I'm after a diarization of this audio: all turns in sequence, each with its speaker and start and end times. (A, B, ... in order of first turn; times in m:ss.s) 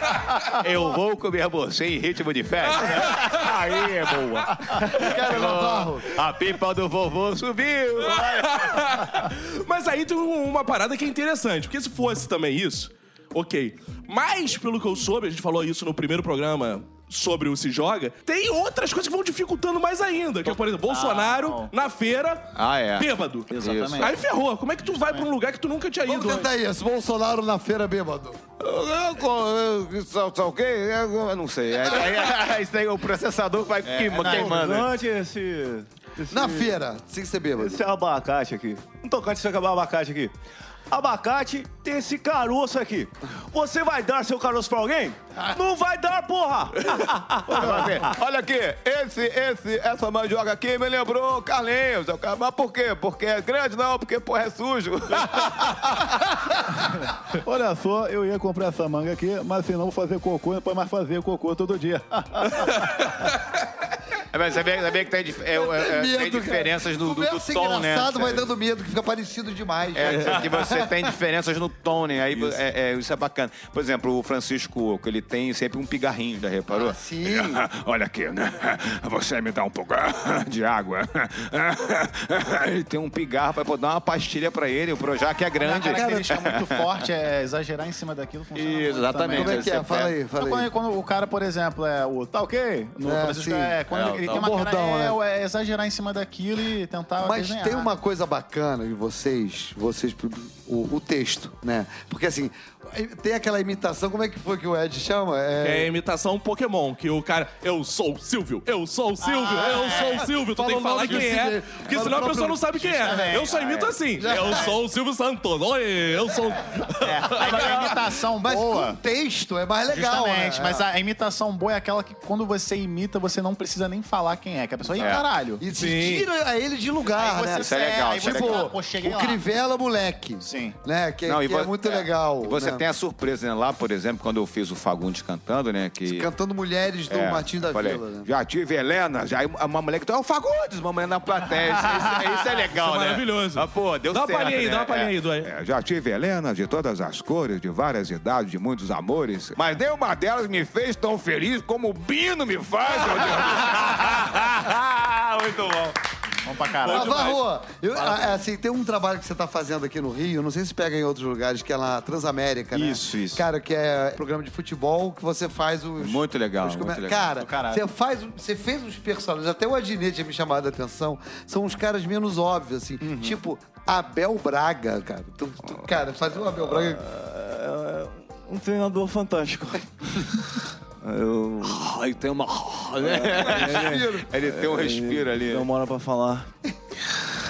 0:00.5-0:08.8 A
0:02.9-0:03.3 B
0:04.9-0:06.1 C
0:08.0-0:26.5 B
0:20.4-0:21.7 D
0:22.6-0:24.1 A
0:23.5-0:24.1 D
0:25.0-0:25.3 D
0:26.0-0:28.4 C
0:28.6-0:34.9 A
0:33.8-0:34.6 D
0:34.1-0:36.8 E
0:36.3-0:37.8 C
0:37.6-0:40.3 E
0:40.9-0:48.0 E
0:47.5-0:56.0 A
0:57.4-1:02.9 D
1:04.3-1:08.5 A
1:05.5-1:11.1 C
1:09.9-1:26.8 A
1:16.7-1:17.6 C
1:25.6-1:29.8 D
1:25.8-1:26.3 C
1:28.5-1:30.2 A
1:29.3-1:30.7 C
1:30.4-1:37.9 D
1:33.0-1:35.2 C
1:33.9-1:34.5 A
1:37.2-1:45.9 C
1:45.6-1:57.8 B
1:49.2-1:50.3 D
1:49.4-1:53.4 C
1:52.8-1:53.8 D
1:54.2-1:54.7 C
1:57.0-1:59.0 D
1:57.4-2:00.8 C
1:59.9-2:05.6 D
2:05.0-2:05.2 A
2:05.0-2:12.8 C
2:05.7-2:06.2 B
2:07.1-2:09.4 D
2:07.5-2:08.7 A
2:10.4-2:10.8 D
2:11.2-2:16.3 A
2:16.0-2:18.3 C
2:17.1-2:35.9 A
2:22.7-2:25.5 B
2:36.4-2:37.2 D
2:36.8-2:57.0 C
2:36.9-2:37.4 B
2:42.7-2:43.4 E
2:46.0-2:47.3 A
2:47.4-2:47.8 D
2:56.6-3:00.3 E
3:01.0-3:01.9 E
3:01.6-3:05.7 A
3:03.0-3:06.5 E
3:03.4-3:04.3 C